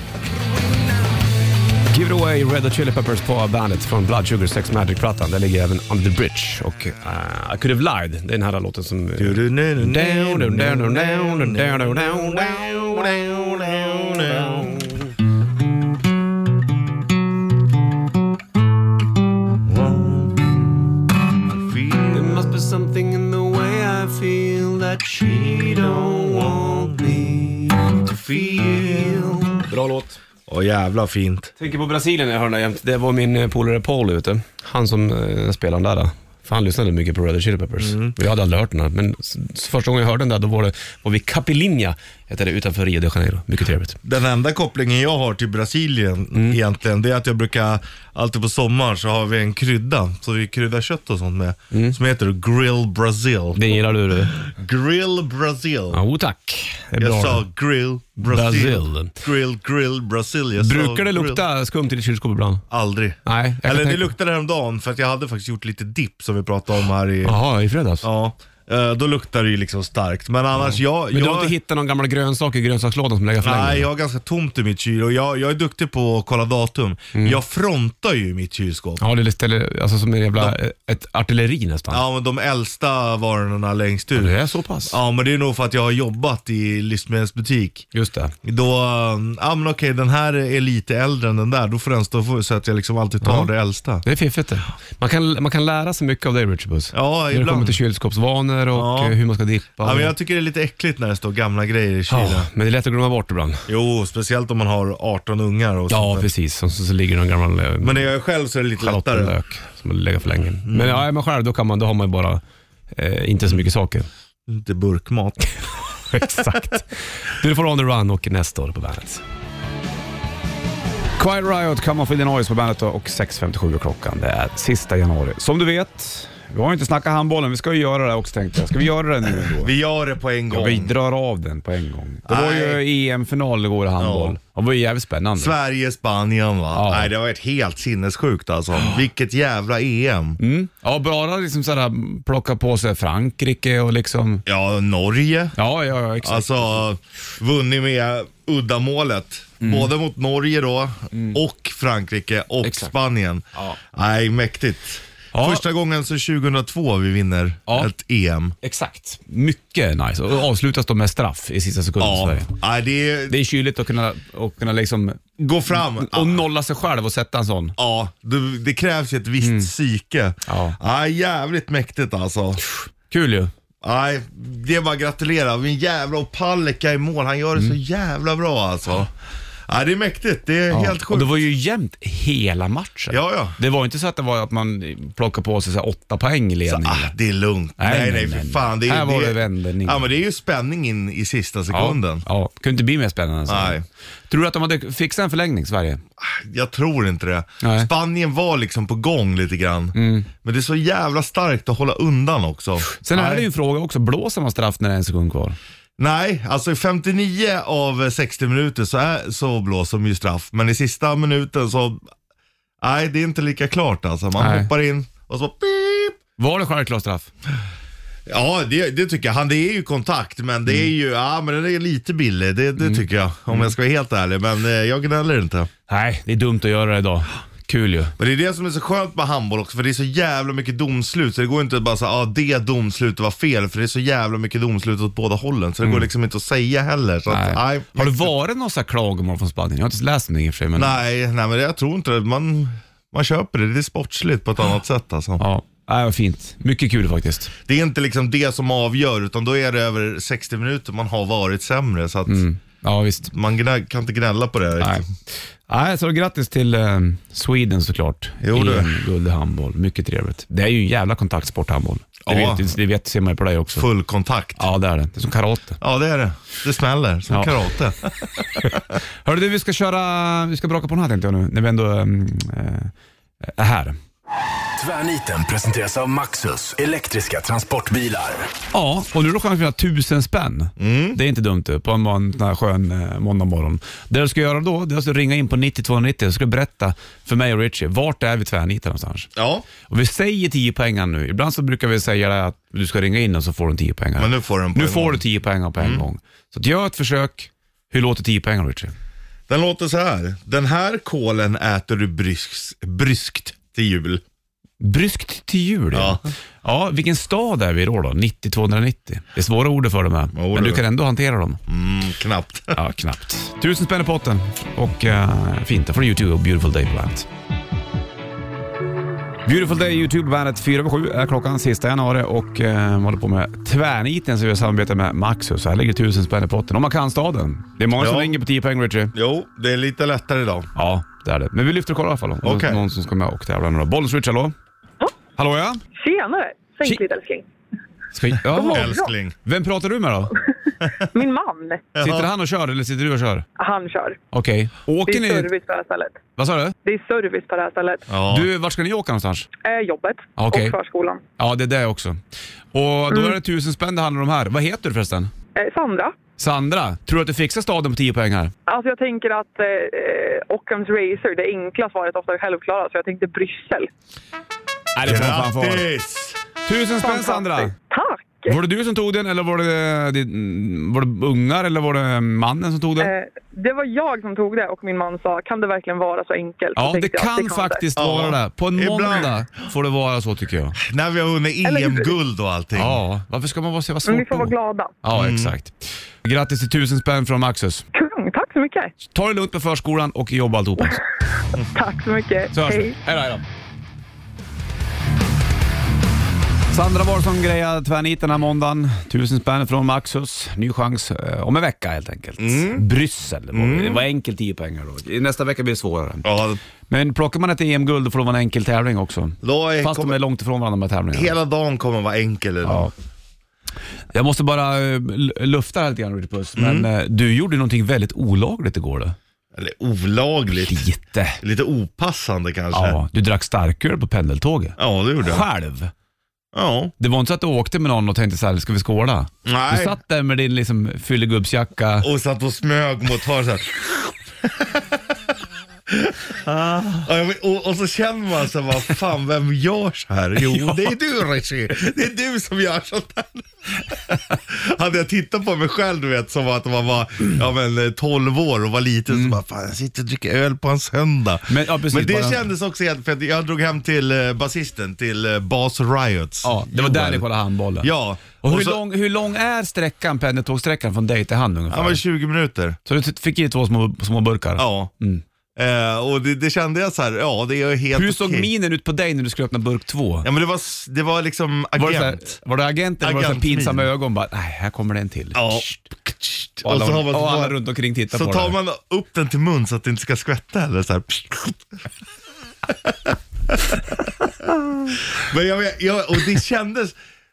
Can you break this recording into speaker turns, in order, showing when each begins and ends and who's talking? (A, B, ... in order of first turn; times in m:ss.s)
0:01.9-0:15.1 A
0:09.2-0:14.7 B
0:19.6-0:20.7 B
0:21.4-0:22.4 B
0:22.1-0:27.6 A
0:26.1-0:27.2 B
0:27.9-0:29.4 B
0:28.3-0:30.2 A
0:30.5-0:31.5 B
0:31.6-0:44.0 A
0:37.8-0:38.1 B
0:44.0-0:53.8 B
0:46.3-0:46.6 A
0:51.7-0:52.0 A
0:53.6-0:54.5 A
0:54.3-0:56.0 B
0:55.9-0:57.4 A
0:57.0-1:01.4 B
0:58.2-0:59.2 A
1:00.6-1:02.6 A
1:02.7-1:07.4 B
1:03.2-1:04.1 A
1:07.2-1:08.1 A
1:08.0-1:11.6 B
1:10.6-1:13.9 A
1:13.4-1:19.0 B
1:17.2-1:17.4 A
1:19.0-1:22.0 A
1:21.9-1:24.3 B
1:24.2-1:25.0 A
1:24.9-1:27.9 B
1:27.9-1:28.3 A
1:28.4-1:34.0 B
1:33.2-1:33.5 A
1:34.0-1:40.1 A
1:36.9-1:37.8 B
1:38.7-1:39.2 B
1:39.8-1:42.5 B
1:42.1-1:43.7 A
1:43.7-1:46.3 B
1:45.9-1:48.1 A
1:47.8-1:49.4 B
1:48.8-1:54.1 A
1:50.7-1:51.0 B
1:54.5-1:55.5 B
1:56.0-1:59.2 A
1:56.2-1:56.7 B
2:01.2-2:09.7 A
2:09.4-2:10.9 B
2:10.5-2:15.5 A
2:12.2-2:12.8 B
2:14.0-2:14.4 B
2:15.4-2:20.4 B
2:16.7-2:17.1 A
2:20.4-2:24.4 A
2:24.4-2:25.6 B
2:25.6-2:26.9 A
2:26.2-2:38.6 B
2:29.6-2:29.9 A
2:31.1-2:31.4 A
2:32.6-2:32.9 A
2:35.3-2:35.6 A
2:38.6-2:42.5 A
2:42.0-2:43.4 B
2:43.3-2:47.8 A
2:45.4-2:46.4 B
2:47.8-2:52.6 B
2:49.4-2:49.7 A
2:50.5-2:50.8 A
2:52.6-2:53.5 A
2:53.8-2:59.1 B
2:59.7-3:01.4 B
3:00.7-3:07.1 A
3:03.1-3:03.6 B
3:06.7-3:12.2 B
3:07.8-3:10.1 A
3:11.7-3:16.0 A
3:13.5-3:13.8 B
3:16.2-3:23.4 B
3:17.6-3:17.9 A
3:19.9-3:20.3 A
3:22.9-3:25.6 A
3:26.0-3:32.0 B
3:32.8-3:36.2 B
3:34.4-3:34.7 A
3:36.4-3:37.3 A
3:38.3-3:45.7 B
3:42.8-3:43.7 A
3:45.9-3:48.1 A
3:48.2-3:58.3 B
3:57.3-4:01.0 A
4:00.8-4:05.4 B
4:05.4-4:07.5 A
4:07.7-4:12.4 B
4:12.3-4:13.3 A
4:13.3-4:15.1 B
4:14.8-4:23.9 A
4:18.4-4:18.9 B
4:22.2-4:22.7 B
4:23.8-4:24.6 B
4:24.6-4:25.8 A
4:25.8-4:29.0 B
4:27.3-4:27.6 A
4:28.6-4:32.9 A
4:33.4-4:34.0 A
4:34.8-4:38.5 C
4:38.7-4:49.3 A
4:40.8-4:41.2 B
4:49.4-4:49.7 B
4:49.8-4:58.9 A
4:54.2-4:55.2 B
4:55.8-4:56.0 B
4:59.5-5:04.2 B
5:04.8-5:11.6 A
5:05.9-5:06.2 B
5:10.3-5:10.8 B
5:11.7-5:12.8 B
5:12.7-5:17.3 A
5:19.4-5:29.1 A
5:28.0-5:28.3 B
5:29.1-5:30.7 B
5:30.8-5:34.6 A
5:32.4-5:32.8 B
5:35.4-5:35.8 A
5:36.0-5:37.4 D
5:38.1-5:40.3 A
5:38.4-5:39.1 D
5:38.5-5:39.3 B
5:40.8-5:41.1 B
5:41.0-5:41.8 D
5:41.9-5:42.3 B
5:42.0-5:43.4 A
5:43.6-5:44.2 D
5:44.3-5:45.5 A
5:45.1-5:46.2 D
5:46.4-5:46.8 A
5:46.8-5:48.1 D
5:48.1-5:48.5 B
5:48.3-5:49.5 A
5:49.6-5:51.2 D
5:50.4-5:50.8 A
5:51.4-5:52.2 A
5:52.7-5:55.3 A
5:53.1-5:53.4 D
5:55.6-5:56.2 D
5:56.4-5:58.5 A
5:58.7-6:03.9 D
6:04.9-6:05.8 A
6:05.0-6:06.4 B
6:06.6-6:07.7 A
6:07.0-6:08.6 D
6:08.5-6:13.1 A
6:13.0-6:17.8 D
6:16.8-6:20.8 A
6:18.0-6:19.4 B
6:20.8-6:23.0 B
6:21.6-6:22.1 D
6:22.8-6:27.8 A
6:24.1-6:24.9 D
6:25.1-6:25.5 B
6:27.9-6:28.9 D
6:29.1-6:31.0 A
6:31.7-6:33.0 D
6:32.5-6:33.4 A
6:36.7-6:46.3 A
6:42.4-6:42.8 B
6:43.5-6:44.0 B
6:46.2-6:46.6 B
6:46.9-6:51.3 A
6:49.4-6:50.2 B
6:51.1-6:52.9 B
6:52.6-6:52.9 A
6:54.1-6:59.2 A
6:56.6-6:56.9 B
6:59.6-7:00.8 B
7:00.5-7:01.4 A
7:01.4-7:03.0 B
7:02.7-7:05.9 A
7:04.8-7:05.4 B
7:06.5-7:06.9 B
7:07.0-7:12.1 A
7:09.4-7:10.0 B
7:12.0-7:15.0 B
7:15.9-7:37.2 B
7:20.4-7:20.9 A
7:29.1-7:29.4 A
7:31.5-7:32.4 A
7:36.4-7:42.0 A
7:37.8-7:38.8 B
7:41.7-7:42.8 B
7:42.8-7:45.2 A
7:44.6-7:44.9 B
7:45.6-7:48.5 B
7:47.9-7:50.3 A
7:50.2-7:52.4 B
7:51.8-7:56.0 A
7:53.0-7:53.9 B
7:55.3-7:57.6 B
7:56.6-7:58.6 A
7:58.1-8:01.8 B
8:02.6-8:07.0 B